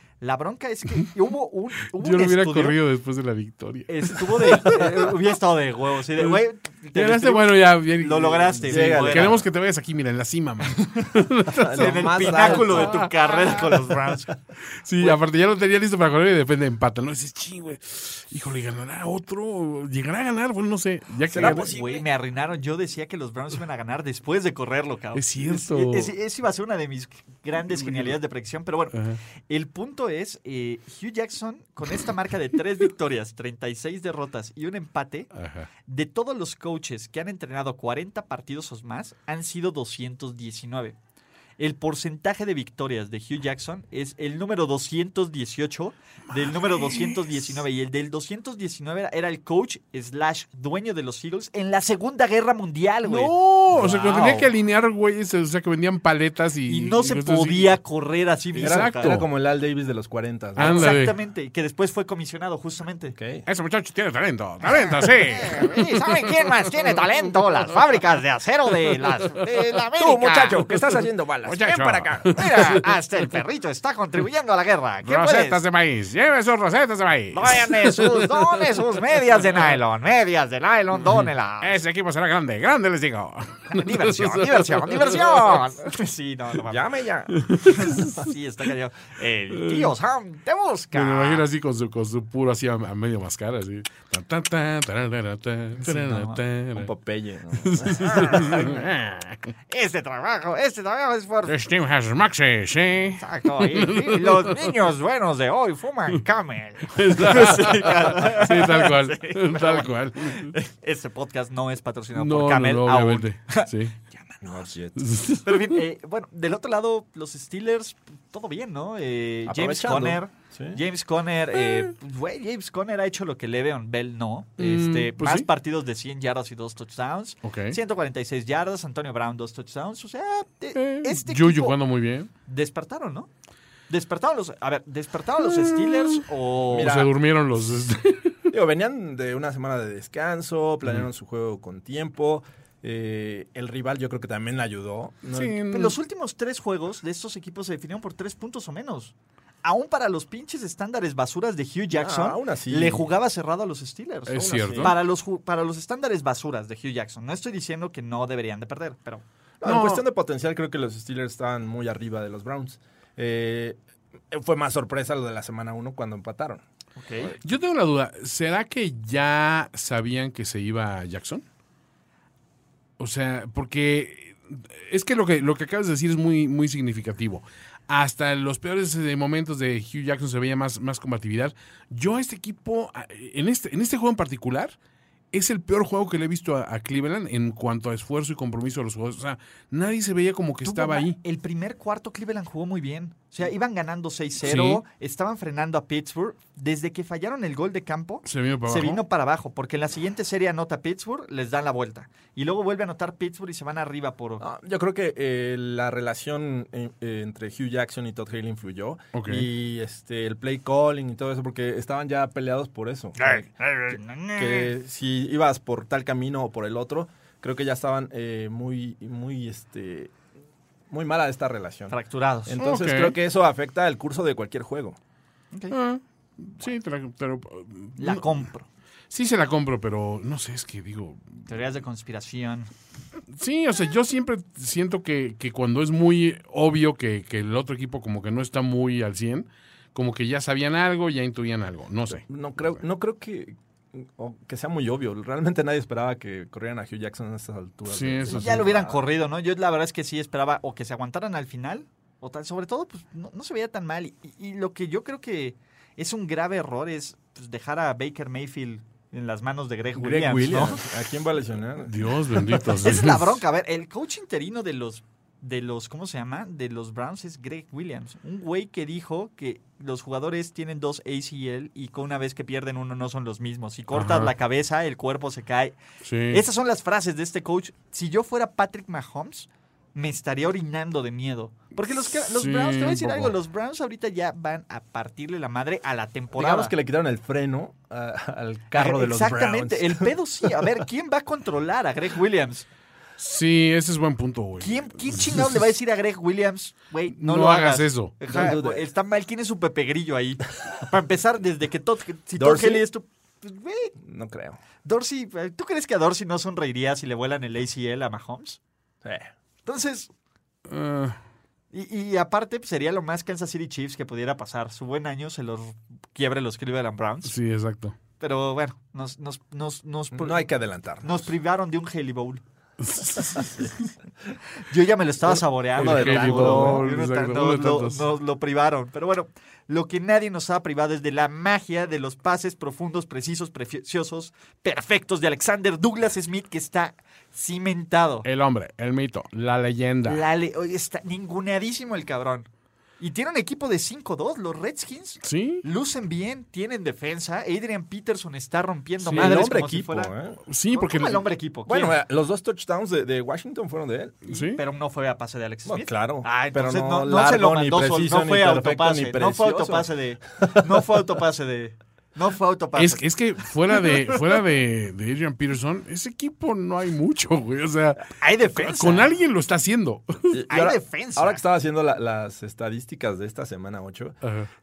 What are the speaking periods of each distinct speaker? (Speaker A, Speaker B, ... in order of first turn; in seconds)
Speaker A: 0.2-2.8, 3.9-9.4, 11.7-14.3, 21.3-29.0, 29.5-35.3, 35.9-41.0, 41.6-54.5, 56.7-59.2, 60.6-63.1, 64.9-70.6, 72.3-75.6, 77.3-81.8, 83.7-86.8, 87.6-91.5, 95.8-96.4, 98.0-98.8, 99.7-101.5, 103.2-114.7, 115.4-131.8, 132.5-133.3, 133.9-136.9, 145.7-159.2, 166.9-167.3, 190.6-204.4, 213.2-214.7, 221.9-222.6, 228.0-228.7, 231.5-232.7, 248.3-260.8, 262.8-275.8, 276.3-286.7, 288.7-292.6, 294.6-303.9, 304.8-308.6, 309.6-310.1, 311.7-317.3, 318.2-320.5, 321.0-322.4, 324.7-338.3, 340.0-342.5, 343.0-350.1, 350.7-352.0, 354.3-363.0, 368.2-369.1, 370.5-371.4
Speaker B: 1.9-5.2, 6.1-6.4, 6.9-13.9, 14.8-21.7, 25.1-26.1, 27.7-28.2, 28.9-29.2, 35.3-35.7, 46.4-47.4, 53.0-57.8, 58.5-59.3, 60.6-61.1, 63.5-66.5, 71.4-72.9, 75.0-78.7, 79.4-79.6, 81.0-85.7, 87.3-88.1, 89.5-89.9, 90.9-96.9, 97.6-99.5, 101.5-104.7, 106.9-110.5, 112.2-114.0, 115.0-115.8, 121.6-121.9, 124.6-125.5, 127.4-127.8, 130.7-132.3, 135.4-138.4, 145.3-146.0, 154.3-155.0, 159.6-160.0, 167.4-171.4, 173.0-184.8, 185.3-191.2, 194.4-194.8, 198.2-199.0, 209.1-209.5, 222.6-223.2, 225.7-228.5, 229.1-231.5, 233.3-242.2, 247.9-248.6, 261.8-263.4, 273.9-274.3, 276.0-276.4, 282.1-283.3, 293.2-295.6, 297.1-298.3, 310.7-311.2, 317.2-317.9, 322.8-323.7, 325.7-328.1, 338.2-340.2, 345.2-345.6, 349.0-349.5, 350.5-351.3, 354.3-354.6, 362.8-370.4, 374.2-374.5
Speaker C: 8.7-9.4, 11.4-13.1, 21.3-22.1, 58.5-60.9, 63.1-63.5, 70.0-72.4, 86.7-87.5, 96.7-98.7, 114.4-115.0, 119.5-120.8, 136.7-137.1, 138.5-145.6, 151.9-153.1, 154.4-154.9, 159.6-163.8, 164.3-166.6, 204.4-213.5, 214.3-220.1, 220.9-225.0, 242.1-249.0, 259.9-262.0, 286.3-290.8, 298.3-298.9, 302.4-302.9, 304.0-304.6, 309.0-309.3, 320.1-321.3, 325.7-326.9, 349.1-350.4, 351.7-354.2, 355.6-359.9, 370.3-374.2